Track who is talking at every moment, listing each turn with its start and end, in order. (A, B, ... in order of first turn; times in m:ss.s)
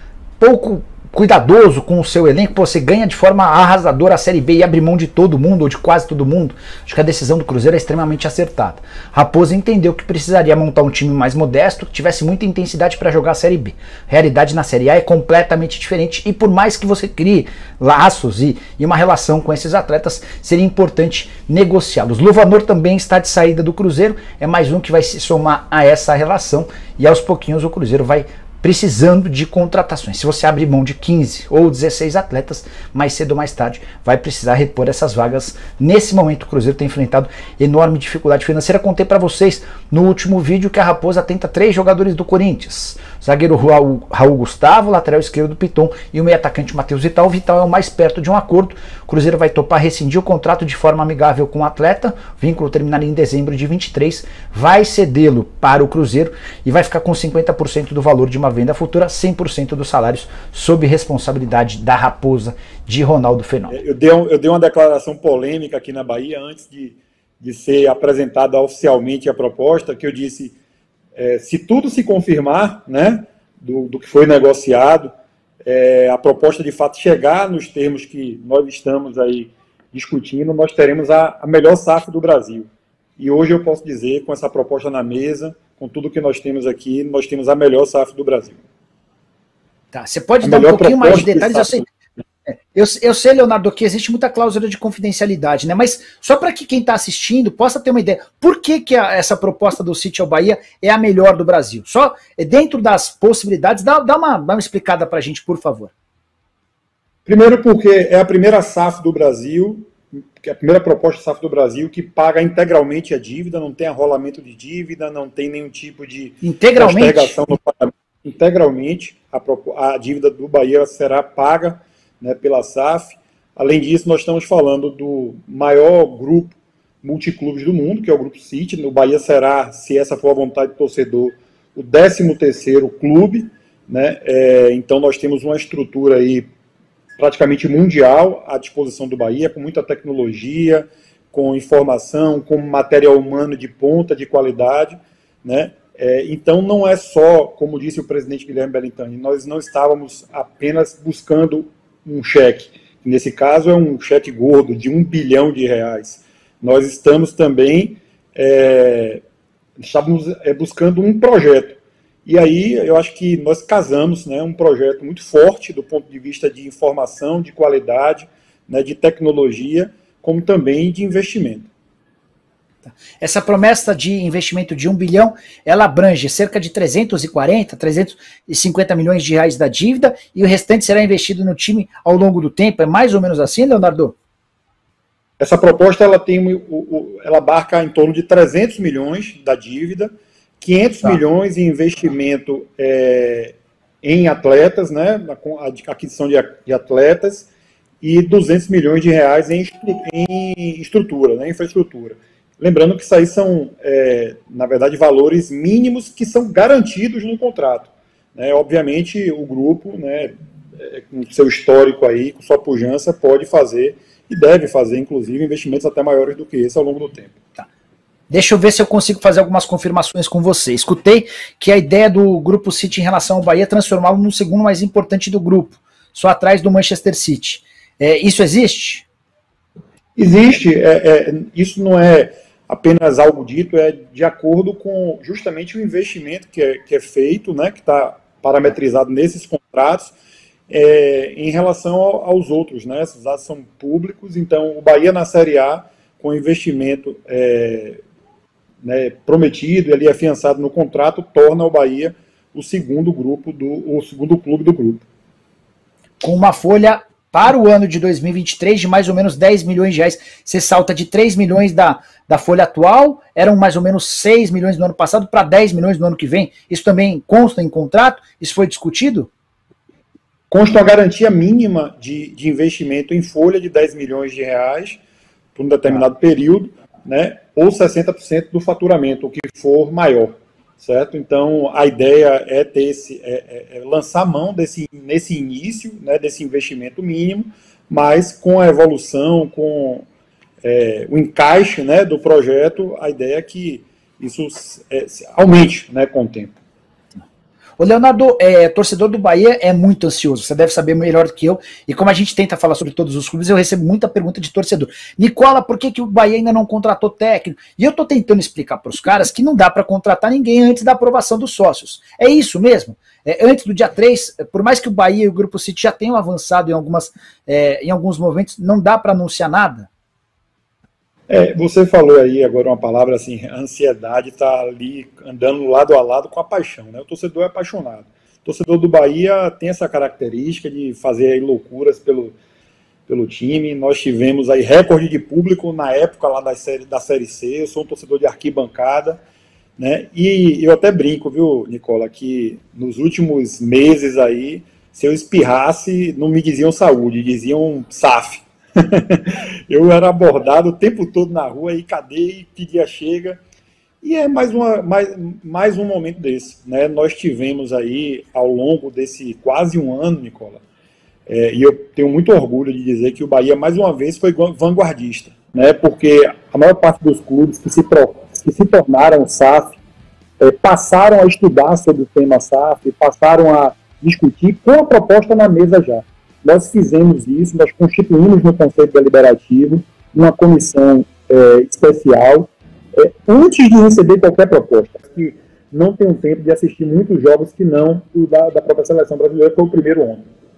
0:00.4-1:03.7 A
1:03.7-1:10.5 B
1:11.2-1:15.1 B
1:15.6-1:28.6 B
1:29.9-1:31.8 A
1:30.4-1:31.8 B
1:32.5-1:45.9 A
1:47.2-2:16.5 B
1:56.4-1:57.3 A
2:17.2-2:39.2 B
2:39.8-2:51.7 B
2:52.8-3:04.1 A
3:05.4-3:17.5 B
3:18.0-3:37.4 B
3:38.3-3:49.0 A
3:50.2-4:00.1 B
4:00.7-4:08.0 B
4:08.8-4:15.0 B
4:16.2-4:29.3 A
4:30.5-4:35.0 B
4:35.5-4:50.0 B
4:50.6-4:56.6 B
4:57.8-5:19.9 A
5:21.3-5:32.4 B
5:33.1-5:39.2 B
5:39.8-5:53.4 B
5:54.0-6:00.6 B
6:01.3-6:09.8 B
6:10.4-6:30.3 B